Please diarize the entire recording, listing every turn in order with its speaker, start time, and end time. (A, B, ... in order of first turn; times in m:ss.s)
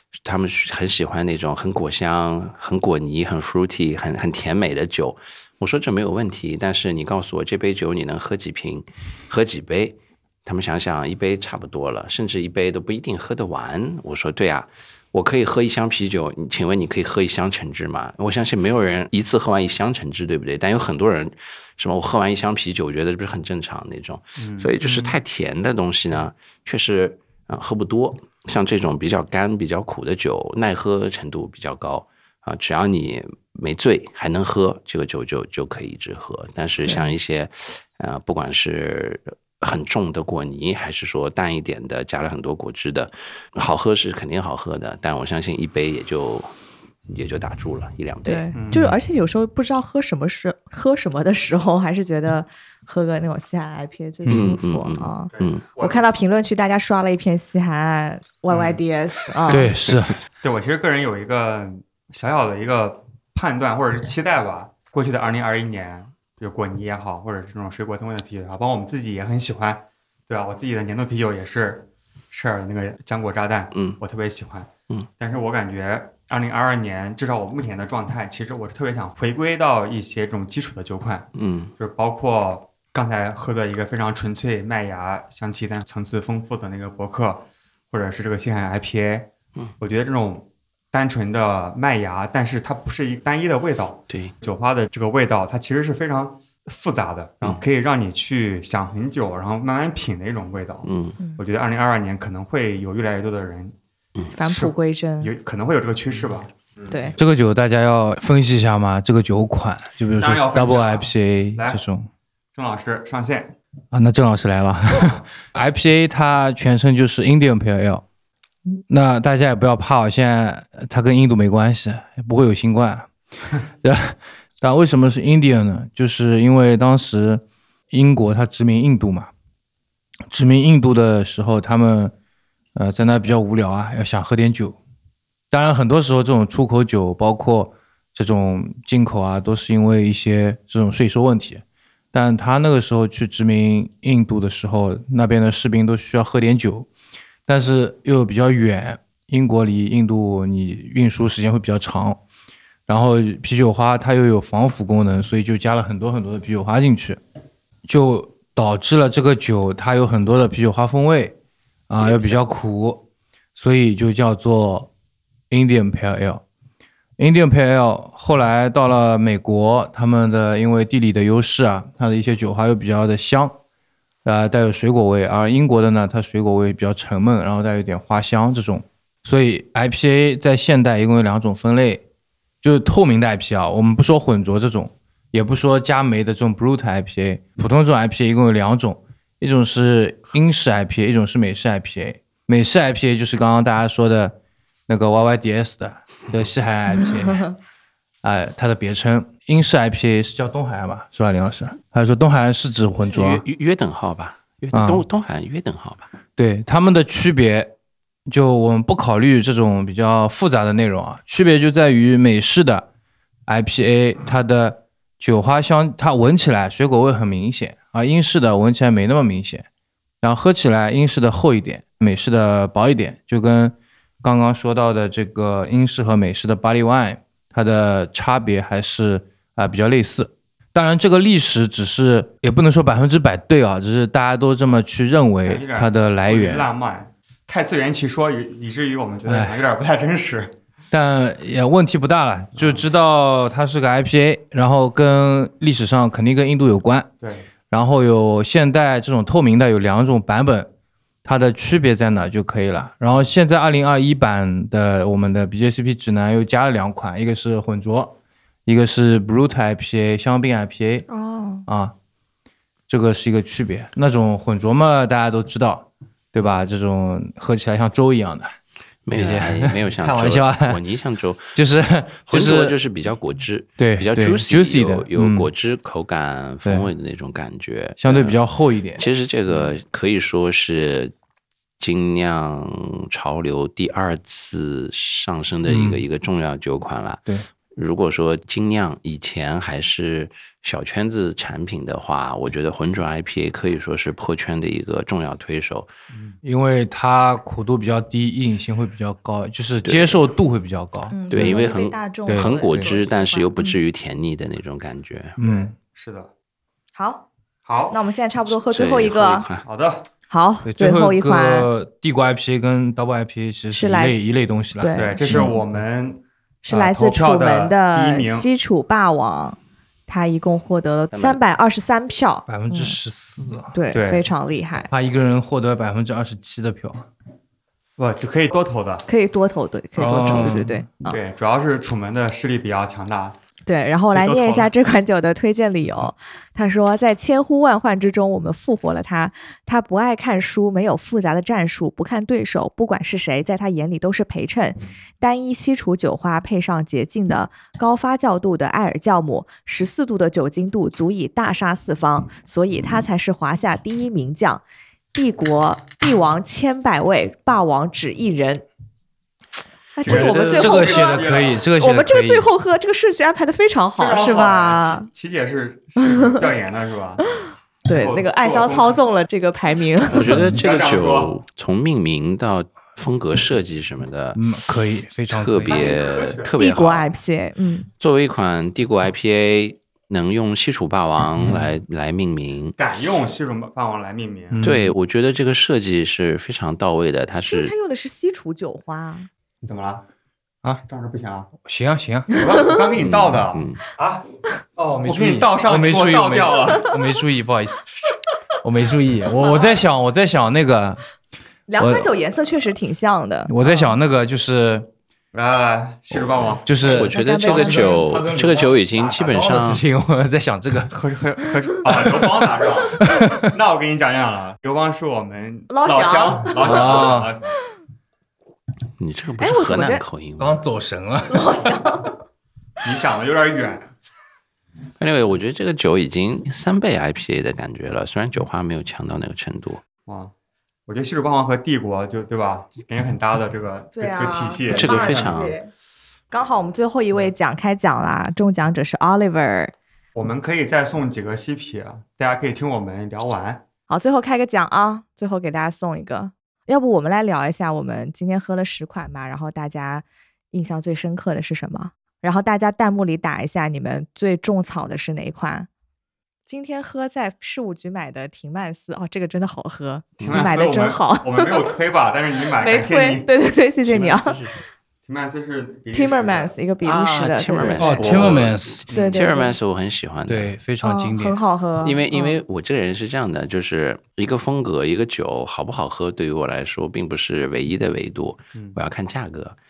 0:00.2-0:46.5 A
0:24.4-0:25.1 B
0:36.8-0:37.2 C
0:47.1-0:48.4 A
0:48.2-0:59.7 C
0:48.5-0:48.9 B
0:54.2-0:54.5 D
0:54.3-0:55.6 A
0:55.3-0:56.1 B
0:58.5-0:58.8 B
0:59.5-1:00.2 D
1:00.4-1:43.8 B
1:13.7-1:14.0 A
1:21.3-1:21.7 A
1:40.8-1:41.2 A
1:44.4-1:45.3 C
1:44.4-1:47.0 B
1:46.9-1:47.2 C
1:47.2-1:52.1 D
1:50.2-1:51.8 B
1:52.5-1:53.6 B
1:53.9-1:58.0 D
1:54.9-1:55.2 B
1:58.7-2:03.1 D
2:03.8-2:09.3 D
2:10.3-2:12.1 D
2:12.7-2:14.8 D
2:15.5-2:26.9 D
2:27.5-2:32.2 D
2:32.9-2:37.2 D
2:37.8-2:41.4 D
2:41.9-2:43.0 D
2:43.6-2:44.9 D
2:45.5-2:46.4 D
2:47.2-2:53.6 D
2:54.2-3:02.0 D
3:02.6-3:14.4 D
3:14.9-3:17.5 D
3:17.2-3:17.5 C
3:18.2-3:23.4 D
3:23.0-3:26.1 A
3:24.7-3:25.0 D
3:26.4-3:27.7 D
3:28.3-3:32.8 D
3:33.5-3:39.6 D
3:40.2-3:56.7 D
3:55.4-4:00.6 B
3:59.2-3:59.6 D
4:00.9-4:07.1 D
4:02.6-4:02.8 B
4:07.2-4:07.5 B
4:07.7-4:10.7 D
4:11.2-4:21.0 D
4:21.1-4:21.6 C
4:21.7-4:21.9 D
4:22.9-4:28.5 D
4:29.0-4:31.6 A
4:29.1-4:30.8 D
4:31.5-4:32.8 D
4:32.3-4:38.4 A
4:33.8-4:35.5 D
4:36.6-4:36.9 D
4:38.0-4:39.7 D
4:39.0-4:41.1 A
4:41.8-4:47.2 A
4:45.6-4:46.0 D
4:47.7-4:55.9 A
4:56.4-5:01.7 D
4:59.8-5:00.2 A
5:01.1-5:03.7 C
5:01.3-5:05.4 A
5:02.3-5:02.9 D
5:05.4-5:05.7 D
5:05.4-5:06.3 B
5:06.9-5:07.2 C
5:07.6-5:08.0 B
5:07.9-5:09.5 C
5:08.7-5:09.6 A
5:09.6-5:10.1 B
5:10.3-5:11.7 C
5:10.6-5:15.5 D
5:13.7-5:14.2 C
5:14.8-5:15.6 C
5:14.9-5:18.5 B
5:16.6-5:23.0 C
5:21.1-5:21.4 A
5:22.5-5:23.7 D
5:23.7-5:24.9 C
5:23.9-5:24.3 B
5:24.9-5:27.1 D
5:28.0-5:29.1 B
5:29.1-5:31.2 C
5:30.0-5:30.8 D
5:31.1-5:33.4 B
5:33.7-5:54.6 C
5:34.1-5:34.7 B
5:55.1-5:58.6 C
6:00.0-6:05.1 C
6:00.0-6:01.6 B
6:00.0-6:02.5 D
6:04.0-6:07.2 B
6:07.8-6:10.4 C
6:07.9-6:09.0 B
6:10.1-6:14.4 A
6:10.3-6:10.6 D
6:10.4-6:11.3 B
6:14.3-6:15.9 D
6:15.3-6:17.1 A
6:15.7-6:16.5 B
6:16.6-6:17.9 C
6:18.0-6:22.8 A
6:22.8-6:24.6 B
6:24.5-6:24.9 D
6:24.6-6:27.7 A
6:27.5-6:29.3 C
6:29.6-6:30.0 B
6:30.8-6:31.5 B
6:31.6-6:32.3 D
6:32.3-6:34.3 B
6:32.4-6:32.6 C
6:32.9-6:33.8 A
6:34.8-6:36.9 B
6:34.8-6:37.8 D
6:38.6-6:41.0 D
6:39.4-6:39.7 C
6:41.7-6:43.5 C
6:41.8-6:42.1 D
6:43.5-6:44.9 D
6:45.3-6:46.7 B
6:46.1-6:49.8 A
6:46.6-6:50.9 D
6:46.8-6:48.1 C
6:50.9-6:57.5 B
6:53.0-6:53.5 D
6:55.7-6:56.9 C
6:56.6-6:57.3 D
6:59.0-7:00.6 A
6:59.4-7:00.0 C
7:00.4-7:01.5 D
7:01.3-7:02.2 C
7:02.8-7:03.9 B
7:05.0-7:09.8 A
7:10.0-7:10.3 B
7:10.9-7:15.4 B
7:14.0-7:15.7 C
7:14.7-7:15.6 A
7:16.3-7:19.7 C
7:20.1-7:23.6 B
7:23.9-7:35.7 C
7:36.5-7:41.7 C
7:40.2-7:40.4 A
7:40.2-7:43.3 B
7:42.6-7:44.4 C
7:43.8-7:44.6 A
7:45.0-7:46.5 B
7:45.9-7:48.1 C
7:46.8-7:50.5 A
7:47.8-7:48.9 D
7:48.0-7:49.2 B
7:48.9-7:49.5 C
7:50.3-7:51.4 D
7:50.8-7:52.4 C
7:51.8-7:59.6 A